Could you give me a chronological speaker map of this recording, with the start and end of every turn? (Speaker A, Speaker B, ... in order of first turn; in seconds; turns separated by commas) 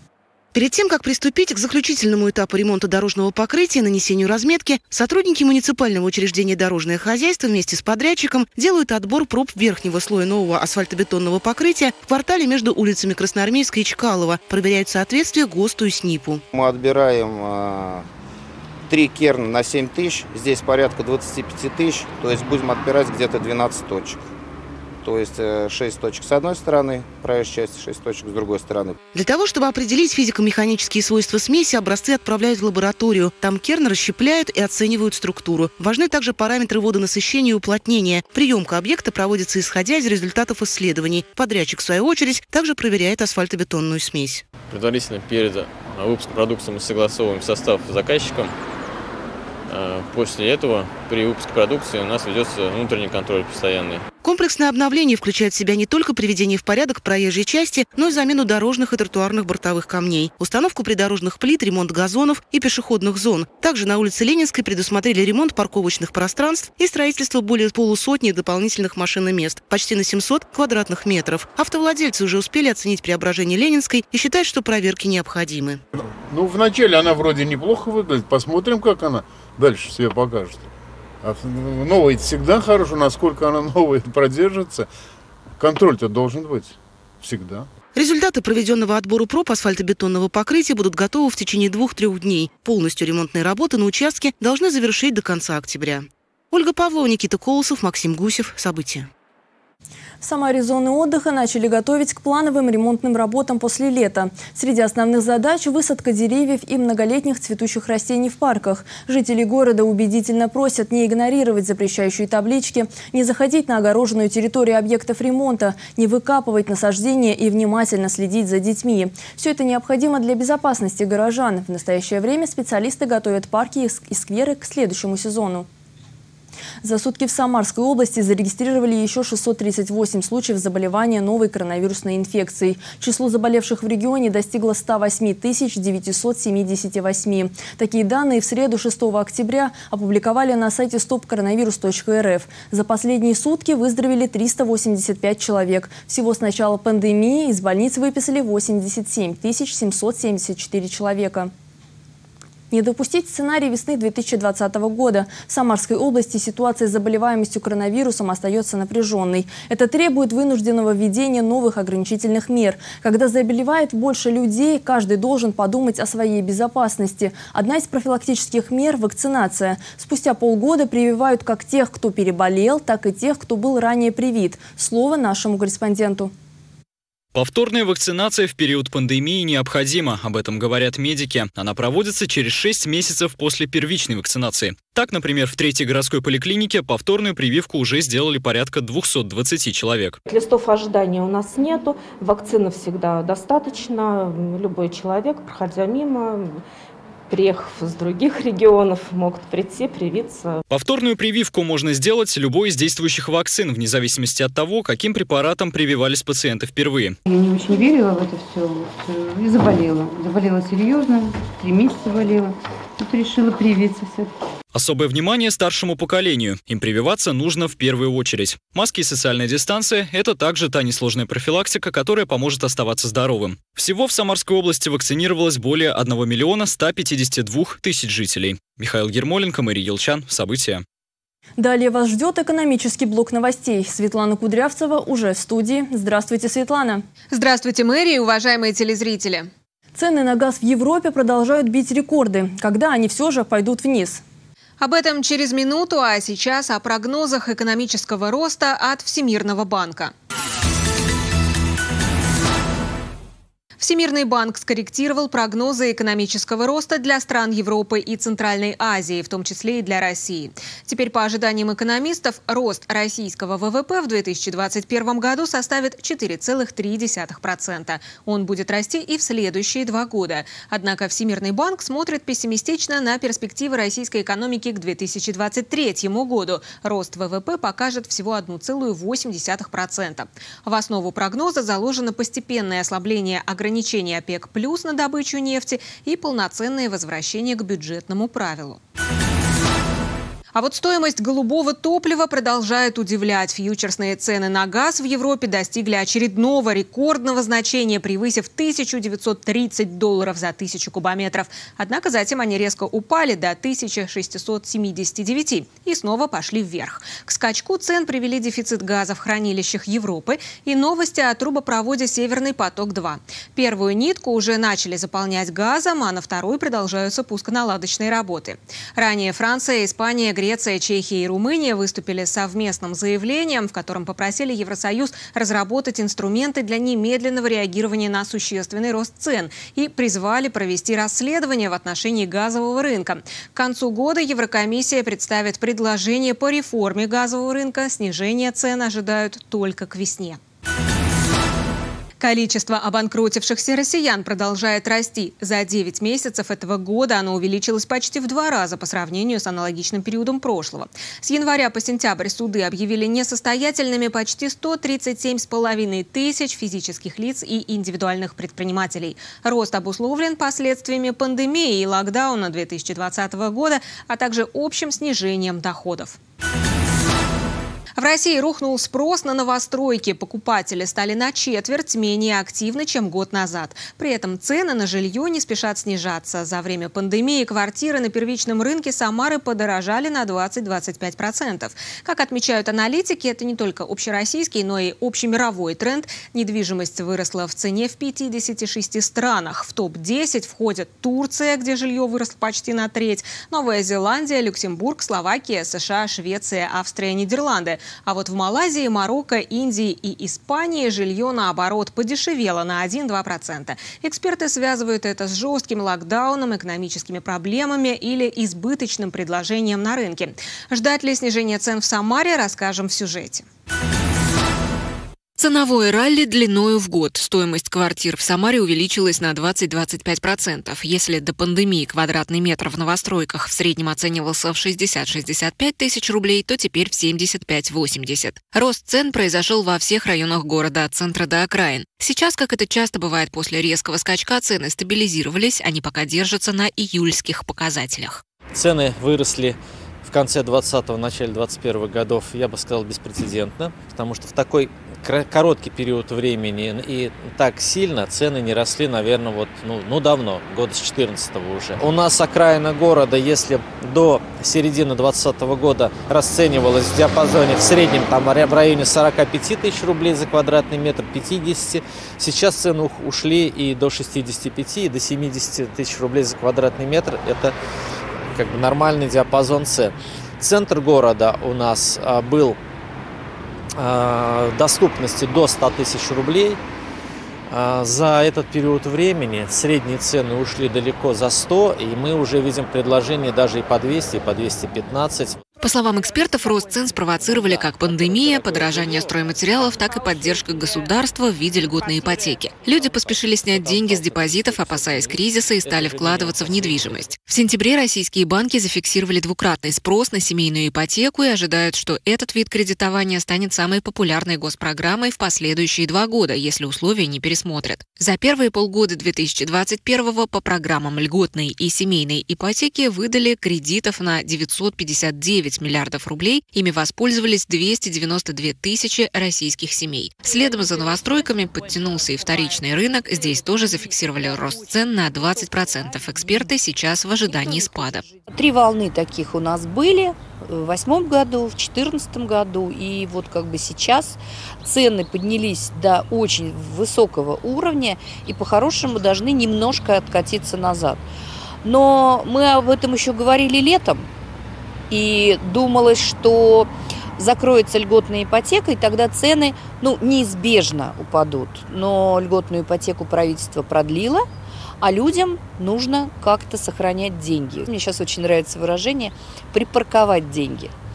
Speaker A: 0.5-16.4, Speaker B: 16.5-18.0, Speaker B: 18.9-24.2, Speaker B: 25.0-28.9, Speaker A: 29.1-44.4, Speaker C: 44.7-48.5, Speaker C: 49.7-54.0, Speaker A: 54.2-75.8, Speaker D: 76.0-80.7, Speaker D: 81.2-84.9, Speaker D: 85.6-87.7, Speaker A: 87.9-99.1, Speaker E: 100.2-125.7, Speaker E: 126.8-151.5, Speaker E: 152.7-176.3, Speaker F: 177.3-190.2, Speaker G: 190.2-196.6, Speaker G: 197.3-200.6, Speaker F: 200.7-207.2, Speaker H: 207.3-214.3, Speaker F: 214.7-230.8, Speaker E: 231.6-237.0, Speaker I: 237.3-239.5, Speaker E: 239.9-244.2, Speaker I: 244.8-250.1, Speaker I: 253.8-288.8, Speaker I: 290.5-340.4, Speaker I: 342.2-366.2, Speaker I: 368.0-413.4, Speaker J: 415.4-438.2, Speaker K: 438.5-467.5, Speaker K: 468.3-472.6, Speaker K: 473.8-476.6, Speaker K: 477.5-485.4, Speaker J: 485.6-528.1, Speaker K: 487.3-488.7, Speaker K: 493.5-497.1, Speaker L: 528.2-541.0, Speaker L: 541.6-544.0, Speaker L: 544.9-554.2, Speaker L: 554.8-560.7